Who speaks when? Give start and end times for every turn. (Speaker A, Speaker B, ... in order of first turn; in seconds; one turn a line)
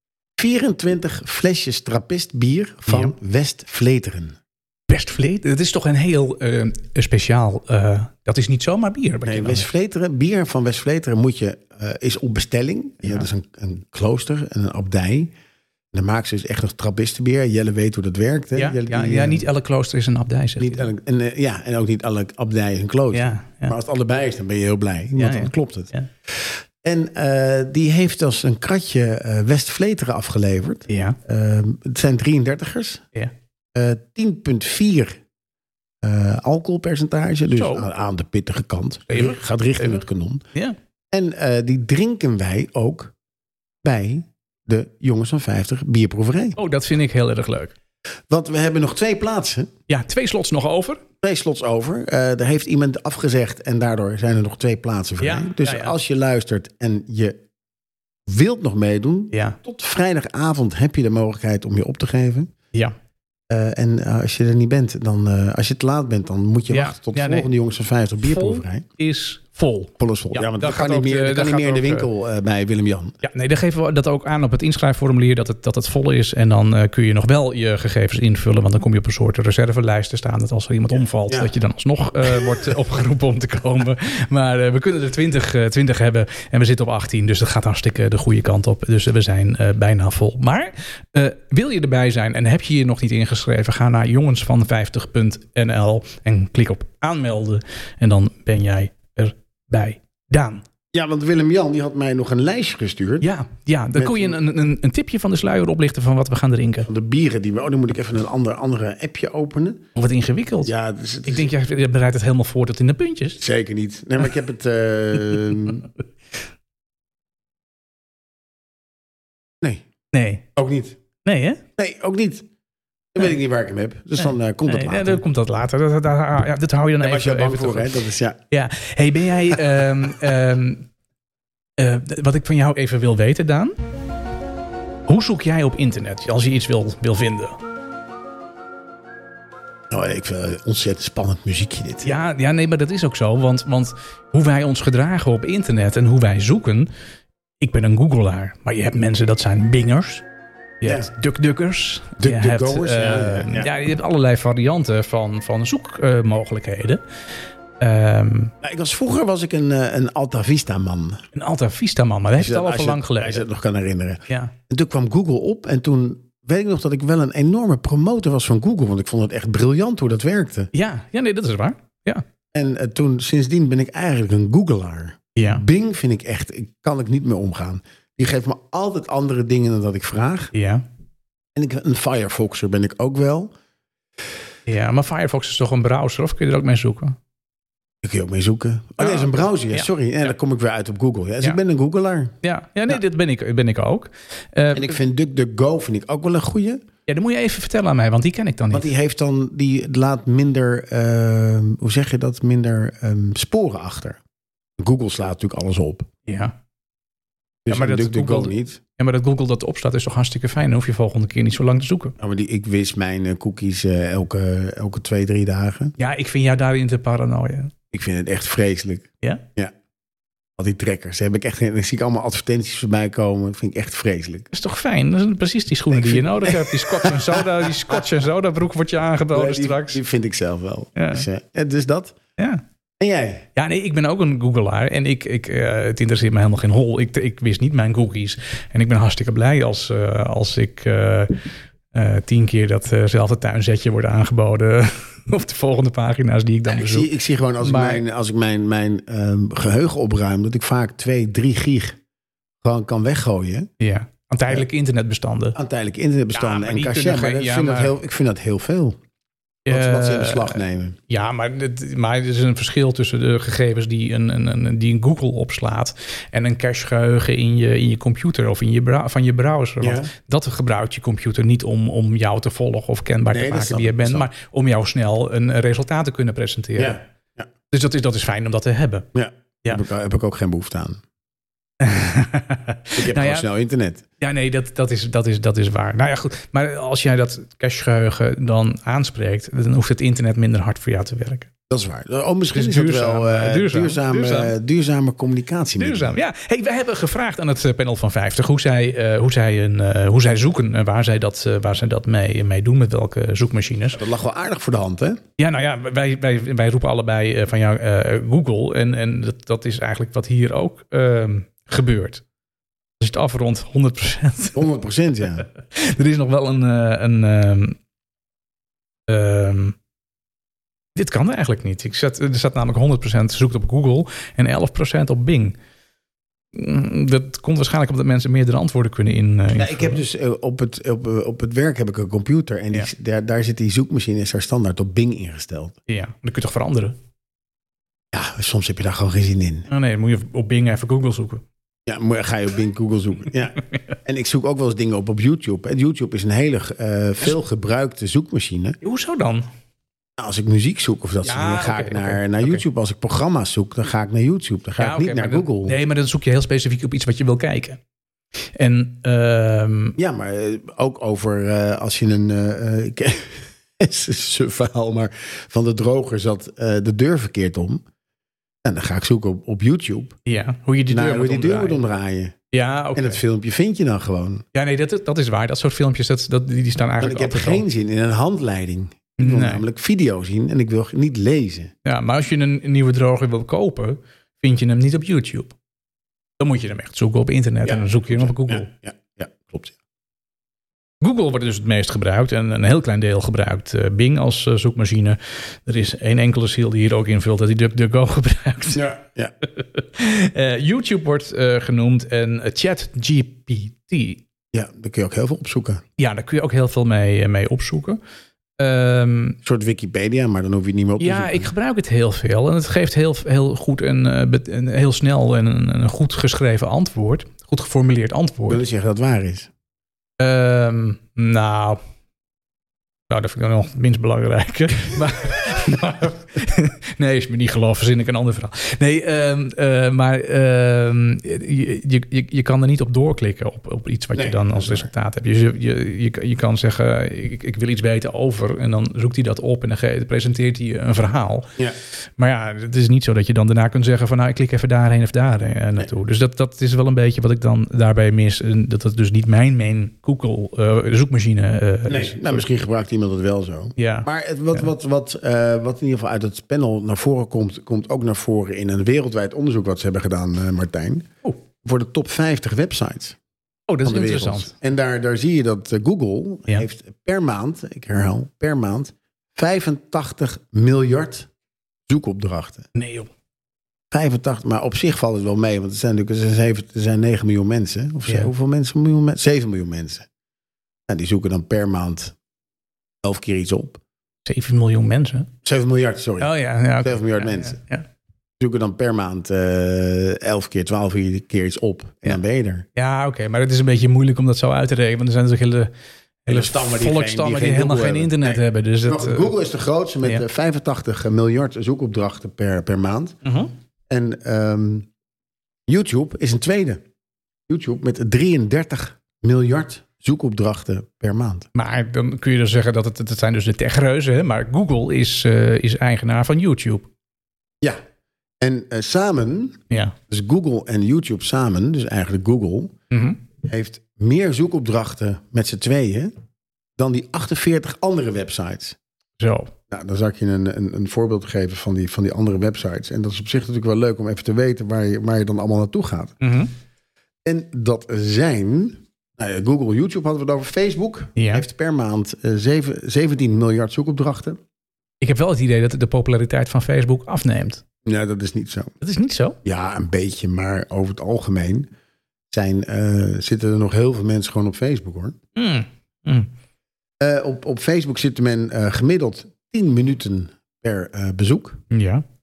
Speaker A: 0.4-4.4
Speaker B: 2.9-3.1
Speaker B: 4.9-9.7
Speaker A: 9.2-15.3
Speaker A: 15.9-19.4
Speaker B: 18.6-20.9
Speaker A: 20.6-33.0
Speaker B: 23.1-23.8
Speaker B: 25.2-26.1
Speaker B: 30.9-31.2
Speaker A: 33.7-35.2
Speaker A: 36.0-40.4
Speaker B: 37.5-37.9
Speaker B: 39.1-40.0
Speaker A: 41.1-43.1
Speaker A: 43.8-46.6
Speaker B: 46.6-47.7
Speaker A: 48.3-49.7
Speaker B: 49.9-51.0
Speaker A: 51.2-57.4
Speaker B: 55.2-56.0
Speaker A: 58.3-62.5
Speaker B: 59.3-59.6
Speaker A: 63.5-68.8
Speaker B: 66.7-67.5
Speaker B: 68.2-72.1
Speaker A: 70.0-73.2
Speaker B: 73.2-100.6
Speaker A: 80.9-81.5
Speaker A: 82.3-82.6
Speaker A: 100.9-103.3
Speaker B: 103.2-106.9
Speaker A: 104.0-104.4
Speaker A: 106.8-109.9
Speaker B: 110.0-110.7
Speaker A: 110.6-111.5
Speaker B: 111.2-113.4
Speaker A: 113.4-115.9
Speaker B: 120.1-120.5
Speaker A: 120.6-121.0
Speaker B: 121.2-121.6
Speaker A: 121.8-122.5
Speaker A: 123.1-125.2
Speaker B: 124.2-128.0
Speaker A: 127.0-128.4
Speaker B: 128.5-130.9
Speaker B: 131.8-133.8
Speaker B: 135.1-137.6
Speaker A: 139.9-142.2
Speaker B: 142.0-146.9
Speaker B: 147.6-150.2
Speaker B: 150.8-157.0
Speaker A: 152.2-153.7
Speaker B: 157.8-158.5
Speaker A: 158.6-161.2
Speaker B: 161.3-163.4
Speaker A: 162.4-170.7
Speaker B: 170.7-172.2
Speaker A: 172.5-180.5
Speaker B: 175.3-175.6
Speaker B: 180.5-180.8
Speaker A: 181.6-183.5
Speaker B: 184.7-187.2
Speaker A: 188.0-192.3
Speaker B: 189.0-190.3
Speaker B: 192.4-195.0
Speaker A: 194.7-196.8
Speaker B: 197.1-198.9
Speaker A: 198.7-204.2
Speaker A: 204.8-206.1
Speaker B: 206.3-206.6
Speaker A: 207.7-208.8
Speaker B: 207.7-212.2
Speaker A: 212.2-215.9
Speaker B: 216.0-217.7
Speaker A: 217.9-219.7
Speaker A: 220.6-224.5
Speaker B: 224.5-230.0
Speaker A: 225.9-228.0
Speaker A: 229.3-232.2
Speaker B: 231.0-231.3
Speaker B: 232.4-232.6
Speaker A: 233.0-233.5
Speaker B: 233.6-248.0
Speaker A: 246.7-252.0
Speaker A: 252.6-253.7
Speaker B: 253.8-255.6
Speaker A: 255.6-259.0
Speaker B: 256.4-257.9
Speaker B: 259.7-277.0
Speaker A: 259.7-261.0
Speaker A: 269.8-270.1
Speaker A: 273.3-274.3
Speaker A: 276.8-277.5
Speaker B: 277.7-279.1
Speaker A: 279.1-281.0
Speaker B: 281.8-283.5
Speaker A: 283.0-284.1
Speaker B: 284.2-291.5
Speaker A: 291.7-296.2
Speaker B: 292.5-294.5
Speaker B: 295.8-304.0
Speaker A: 303.9-305.2
Speaker B: 305.4-312.2
Speaker B: 313.0-314.7
Speaker A: 314.6-315.5
Speaker B: 315.5-317.8
Speaker B: 319.1-319.8
Speaker B: 320.9-325.6
Speaker B: 326.5-330.0
Speaker A: 329.5-335.8
Speaker B: 335.9-337.0
Speaker A: 338.1-339.7
Speaker B: 339.7-341.4
Speaker A: 341.9-348.8
Speaker B: 348.8-349.5
Speaker A: 350.2-355.8
Speaker B: 351.2-352.6
Speaker B: 354.8-357.8
Speaker B: 358.6-360.0
Speaker A: 360.0-367.8
Speaker A: 368.6-370.2
Speaker B: 370.3-371.8
Speaker A: 370.9-372.4
Speaker B: 372.5-373.2
Speaker A: 372.9-374.4
Speaker B: 374.5-377.6
Speaker A: 377.0-381.7
Speaker B: 379.2-379.6
Speaker B: 381.9-385.5
Speaker B: 386.4-388.7
Speaker A: 387.6-389.8
Speaker B: 391.0-398.9
Speaker A: 398.8-399.3
Speaker B: 399.4-404.2
Speaker A: 404.5-405.8
Speaker B: 406.0-408.0
Speaker B: 408.6-409.4
Speaker A: 409.4-411.5
Speaker B: 411.0-418.6
Speaker A: 418.5-419.5
Speaker B: 420.2-421.8
Speaker B: 423.1-441.6
Speaker A: 434.1-434.9
Speaker B: 442.2-452.4
Speaker A: 451.9-461.1
Speaker B: 453.8-454.6
Speaker A: 461.6-463.2
Speaker B: 463.7-464.5
Speaker A: 463.8-471.3
Speaker A: 471.9-472.7
Speaker B: 472.8-473.1
Speaker A: 473.9-480.1
Speaker A: 480.9-482.2
Speaker A: 483.0-483.8
Speaker B: 484.3-485.3
Speaker A: 485.4-487.6
Speaker B: 486.2-487.9
Speaker A: 488.4-492.7
Speaker B: 492.8-495.7
Speaker B: 496.2-499.3
Speaker A: 496.3-503.2
Speaker B: 503.2-503.5
Speaker A: 503.9-504.9
Speaker A: 505.7-506.8
Speaker A: 507.5-511.5
Speaker B: 511.6-516.9
Speaker A: 518.4-522.7
Speaker B: 519.7-520.0
Speaker B: 522.9-523.2
Speaker A: 523.4-526.1
Speaker A: 526.8-528.8
Speaker B: 529.2-529.5
Speaker A: 529.7-536.2
Speaker B: 536.2-536.5
Speaker A: 537.2-544.4
Speaker B: 541.2-541.5
Speaker B: 545.0-547.6
Speaker A: 547.9-548.7
Speaker B: 548.8-549.4
Speaker A: 549.4-551.7
Speaker A: 552.3-555.2
Speaker B: 555.4-556.3
Speaker A: 557.0-561.6
Speaker B: 561.7-562.0